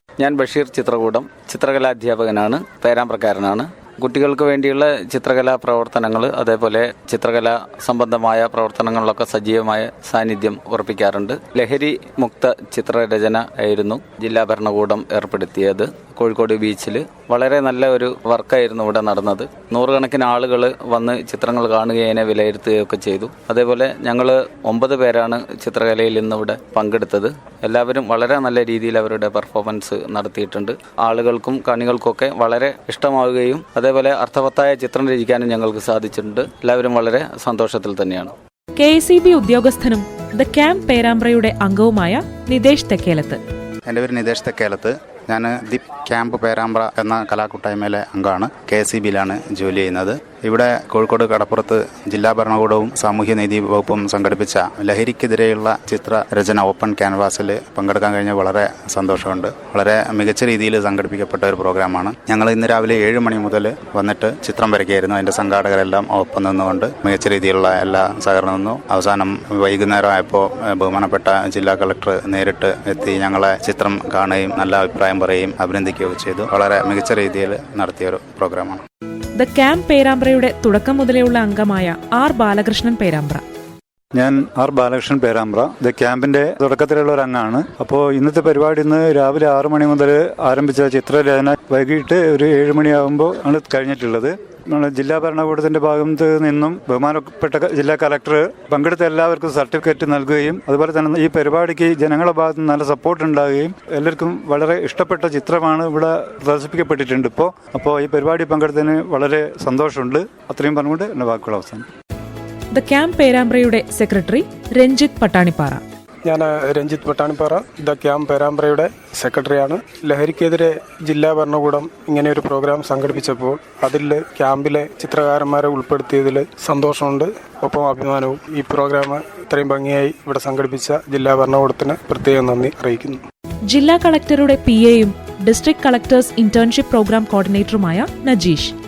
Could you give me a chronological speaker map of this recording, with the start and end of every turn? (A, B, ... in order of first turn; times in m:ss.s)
0:00.2-0:38.3 A
0:38.8-0:43.4 B
0:43.9-1:18.8 C
1:19.4-1:23.4 B
1:24.2-1:51.8 D
1:52.7-1:55.8 B
1:56.2-2:13.2 E
2:13.7-2:18.7 B